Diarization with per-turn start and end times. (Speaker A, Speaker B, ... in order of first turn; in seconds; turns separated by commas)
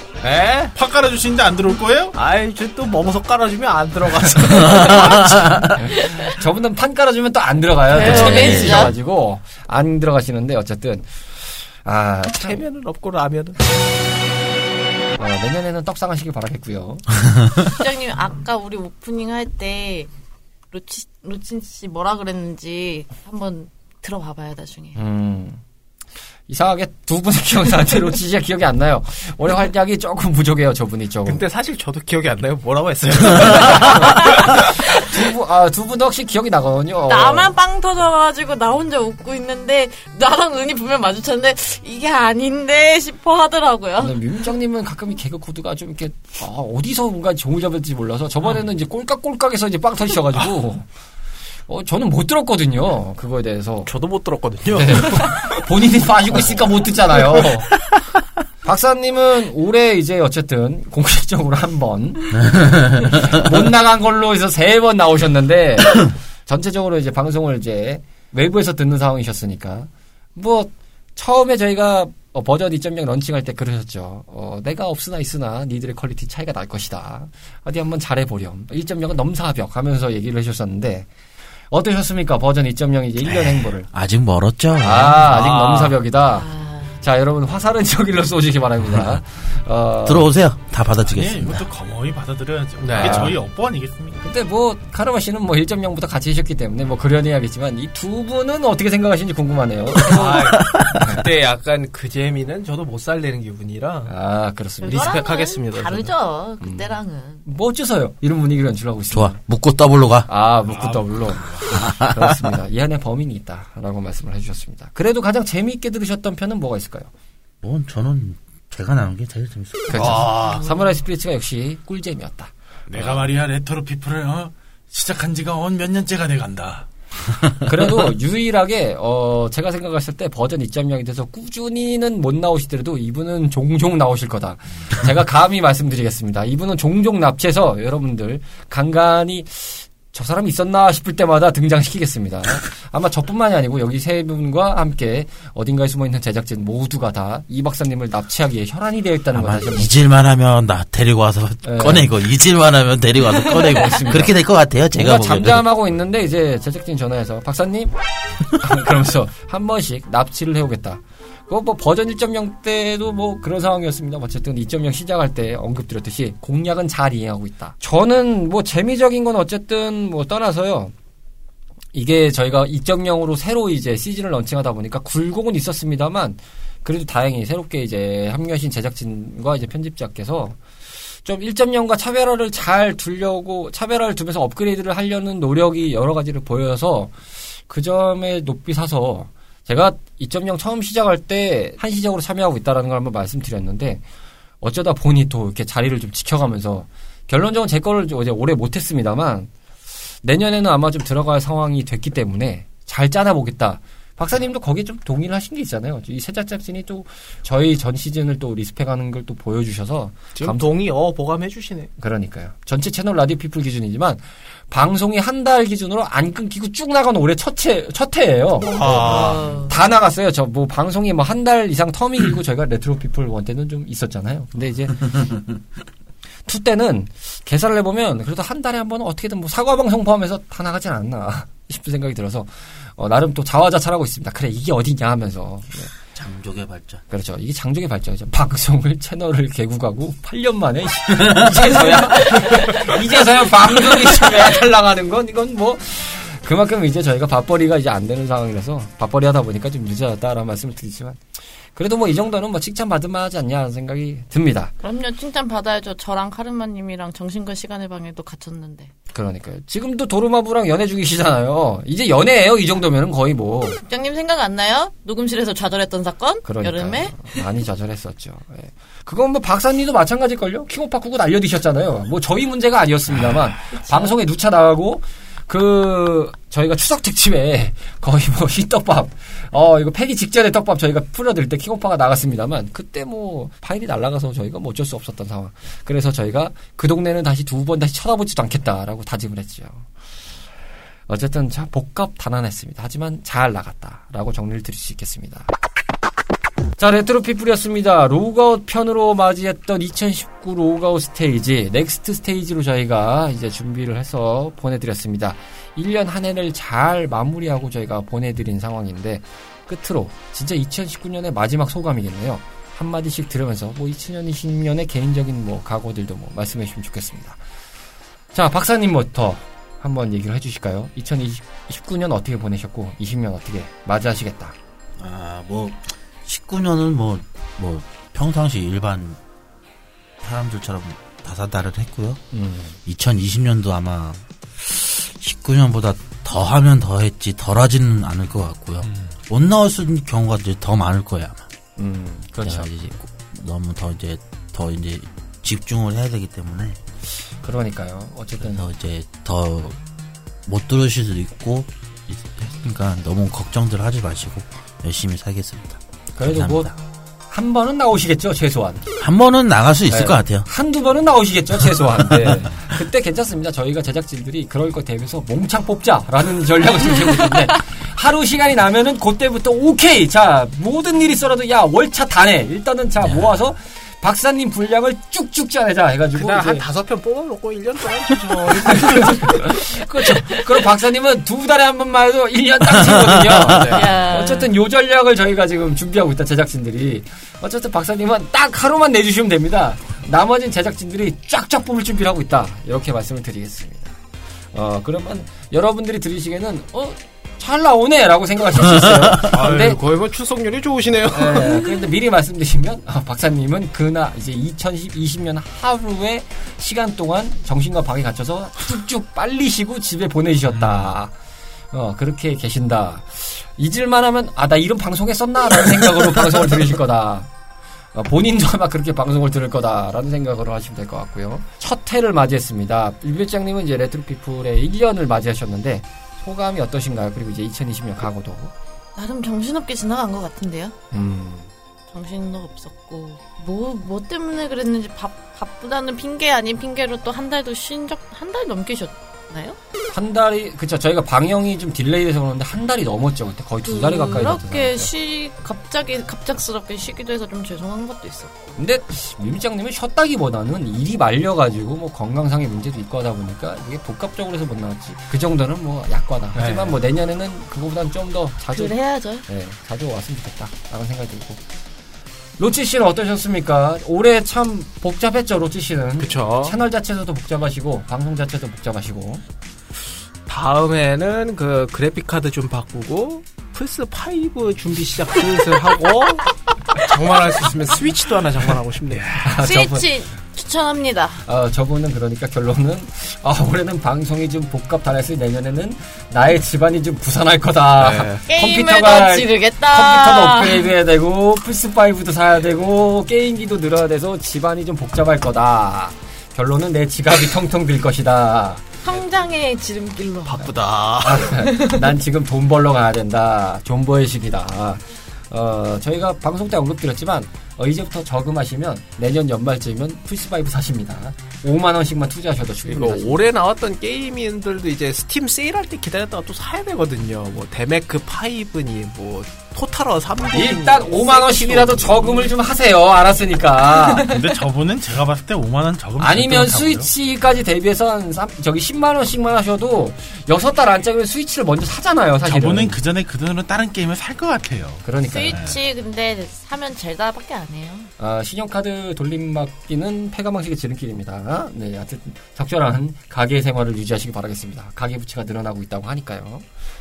Speaker A: 0.2-0.7, Speaker B: 0.7-2.2, Speaker A: 2.1-5.8, Speaker C: 4.9-5.5, Speaker D: 5.7-12.6, Speaker E: 7.9-8.9, Speaker C: 8.0-8.9, Speaker A: 12.3-13.6, Speaker D: 15.2-17.1, Speaker E: 17.7-20.1, Speaker E: 20.7-25.0, Speaker D: 25.0-25.6, Speaker D: 26.5-31.4, Speaker A: 31.2-34.7, Speaker E: 33.9-34.4, Speaker D: 35.0-37.6, Speaker E: 37.1-44.2, Speaker D: 44.0-50.9, Speaker D: 51.7-53.9, Speaker A: 53.9-55.6, Speaker D: 54.7-57.7, Speaker A: 57.1-57.7, Speaker D: 58.6-81.1, Speaker C: 62.3-63.4, Speaker D: 81.7-83.9, Speaker C: 83.2-86.0, Speaker D: 84.8-86.5, Speaker E: 86.3-87.0, Speaker D: 87.0-90.3, Speaker C: 90.0-91.7, Speaker B: 91.0-94.2, Speaker A: 92.8-93.3, Speaker D: 93.0-93.4, Speaker D: 94.2-101.2, Speaker A: 100.0-104.1, Speaker C: 100.2-101.0, Speaker D: 104.1-105.2, Speaker E: 104.8-107.4, Speaker A: 104.8-106.1, Speaker D: 106.6-109.4, Speaker C: 109.1-110.3, Speaker D: 110.3-117.1, Speaker B: 110.7-111.8, Speaker C: 111.7-112.1, Speaker C: 117.6-120.3, Speaker D: 119.9-123.3, Speaker B: 120.0-120.6, Speaker E: 120.3-120.9, Speaker B: 122.9-126.9, Speaker D: 127.6-150.0, Speaker C: 149.3-155.7, Speaker D: 151.6-152.1, Speaker D: 153.6-154.4, Speaker D: 154.9-157.9, Speaker D: 158.5-170.9, Speaker D: 171.9-180.6, Speaker D: 181.2-187.2, Speaker D: 187.7-194.0, Speaker D: 194.6-199.5, Speaker D: 200.2-210.7, Speaker A: 210.3-211.9, Speaker D: 212.0-225.3, Speaker A: 218.6-219.6, Speaker E: 219.0-219.7, Speaker D: 226.5-235.9, Speaker C: 236.1-237.0, Speaker D: 237.1-251.2, Speaker D: 251.8-254.7, Speaker E: 254.8-258.9, Speaker D: 259.1-263.8, Speaker E: 263.9-267.4, Speaker D: 266.4-289.9, Speaker E: 273.8-274.1, Speaker D: 291.1-295.5, Speaker D: 296.8-317.4, Speaker D: 318.3-324.6, Speaker C: 325.0-329.2, Speaker C: 330.2-332.2, Speaker D: 332.3-332.8, Speaker C: 332.9-341.5, Speaker B: 338.8-339.1, Speaker D: 341.8-342.7, Speaker C: 342.4-346.8, Speaker D: 347.4-348.7, Speaker C: 348.4-349.8, Speaker C: 350.5-356.7, Speaker D: 356.2-356.8, Speaker D: 357.3-358.9, Speaker C: 359.0-360.5, Speaker D: 359.9-376.7, Speaker A: 376.2-379.6, Speaker D: 378.7-393.9, Speaker A: 383.5-383.9, Speaker E: 383.7-384.5, Speaker D: 394.5-399.8, Speaker B: 399.3-399.7, Speaker A: 399.3-401.7, Speaker D: 401.1-411.1, Speaker B: 410.5-410.9, Speaker D: 411.7-417.3, Speaker D: 417.9-428.5, Speaker E: 429.0-430.8, Speaker D: 430.9-431.5, Speaker E: 431.9-439.6, Speaker D: 439.9-444.9, Speaker E: 443.6-448.3, Speaker D: 448.6-461.4, Speaker A: 456.4-456.8, Speaker E: 458.5-459.2, Speaker D: 462.4-469.2, Speaker A: 466.0-466.6, Speaker A: 470.3-479.2, Speaker B: 478.9-479.3, Speaker D: 479.2-479.9, Speaker E: 479.4-481.2, Speaker D: 481.2-498.7, Speaker A: 487.8-488.3, Speaker E: 488.3-490.7, Speaker E: 498.8-500.4, Speaker A: 500.3-501.4, Speaker D: 500.4-513.3, Speaker E: 501.4-501.9, Speaker A: 512.7-522.3, Speaker D: 520.3-524.1, Speaker B: 524.1-526.9, Speaker D: 526.0-532.8, Speaker B: 532.2-535.6, Speaker D: 534.8-535.4, Speaker E: 535.0-537.9, Speaker D: 538.0-546.5